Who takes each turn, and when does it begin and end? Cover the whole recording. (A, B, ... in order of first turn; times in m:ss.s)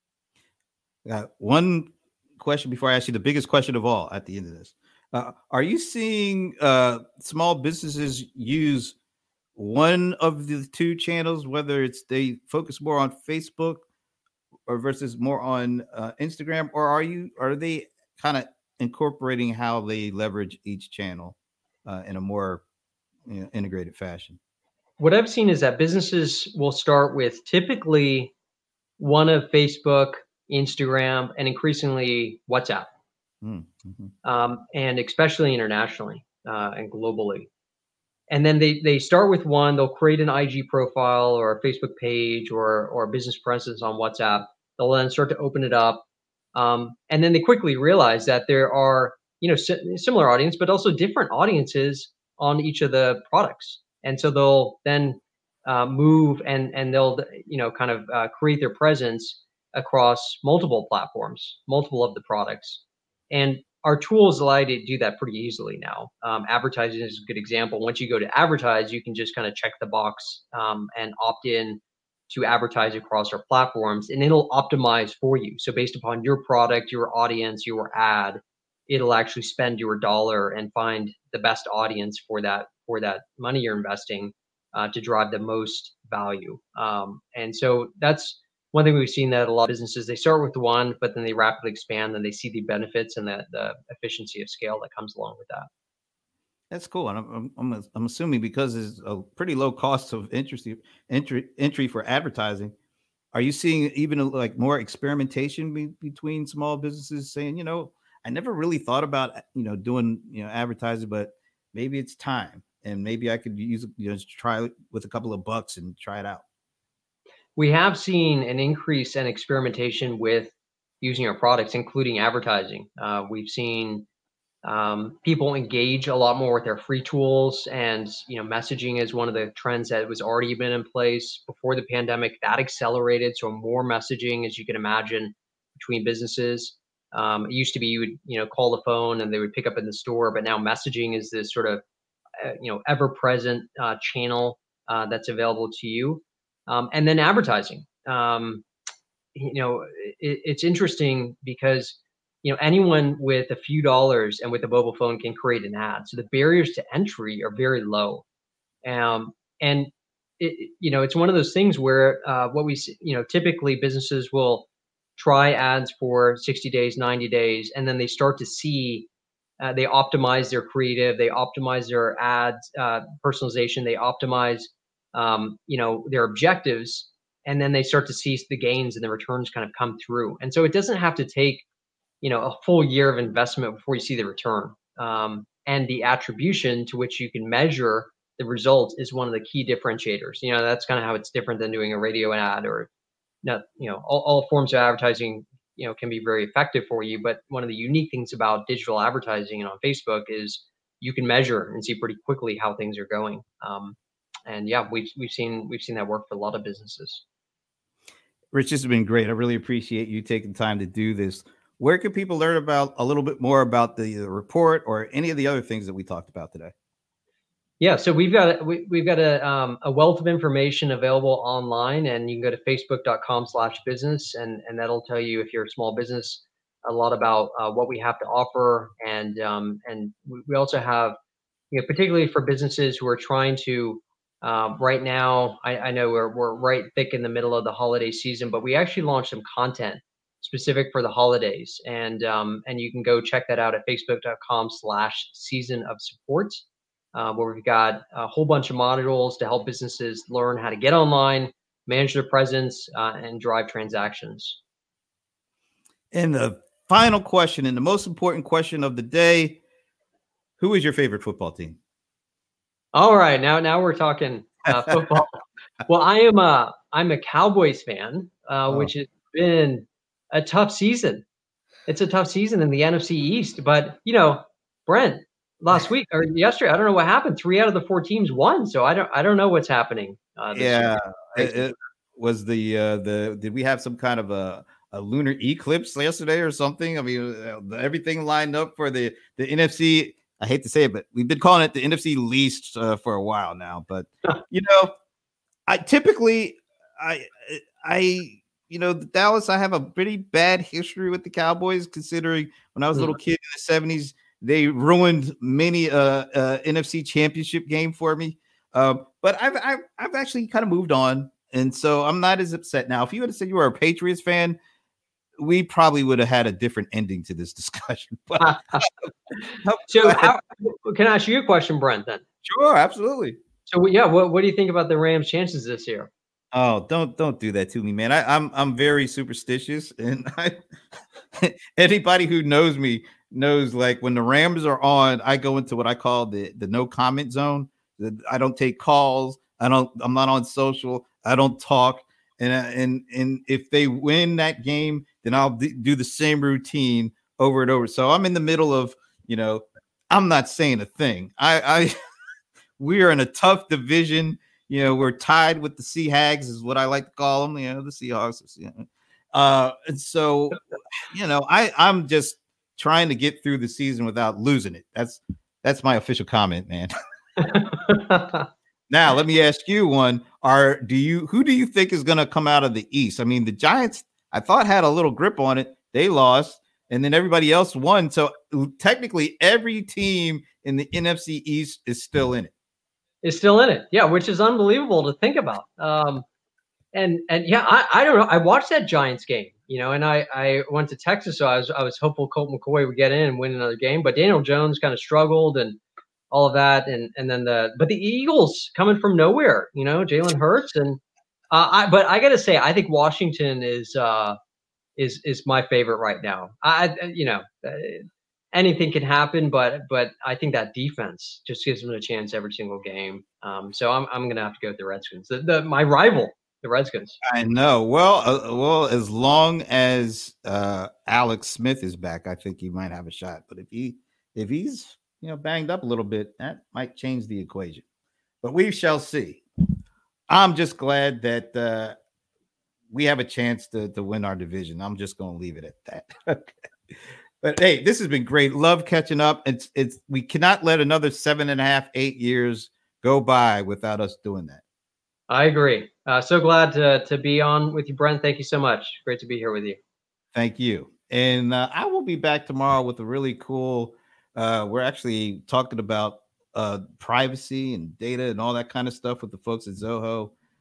0:01.0-0:09.0 A
0:09.6-0:13.8 A
0:14.7-0:22.6 A
0:23.3-0:24.4 A
0:25.0-0:28.3 B
0:29.0-0:32.9 B
0:33.4-0:34.1 A
0:34.2-0:37.5 B
0:38.3-1:35.7 B
1:36.7-1:42.7 A
1:43.3-1:56.4 A
1:57.6-2:04.1 B
2:04.6-2:21.8 B
2:22.4-2:28.6 B
2:29.4-2:38.2 B
2:38.8-2:49.1 B
2:49.6-3:01.6 B
3:02.2-3:12.9 B
3:13.4-3:24.0 B
3:24.5-3:27.2 B
3:28.5-3:36.7 A
3:37.8-3:51.2 B
3:51.7-4:14.6 B
4:16.1-4:19.6 A
4:20.6-4:21.8 A
4:22.9-4:25.3 B
4:25.9-4:31.2 B
4:31.9-4:41.6 B
4:40.6-4:54.9 A
4:55.7-5:14.6 A
5:15.4-5:19.0 A
5:19.6-5:20.3 A
5:19.9-5:22.2 B
5:22.4-5:23.4 A
5:23.7-5:26.1 B
5:26.5-5:30.6 A
5:31.4-5:51.9 A
5:52.8-6:06.9 A
6:07.5-6:08.5 B
6:08.9-6:22.5 A
6:23.2-6:26.2 B
6:26.9-6:35.8 B
6:36.3-6:41.0 B
6:41.5-6:44.4 B
6:45.0-6:57.2 B
6:57.2-7:07.8 A
7:08.4-7:09.4 A
7:10.3-7:12.0 A
7:12.9-7:16.5 A
7:17.4-7:24.6 A
7:25.3-7:29.8 B
7:30.3-7:40.3 A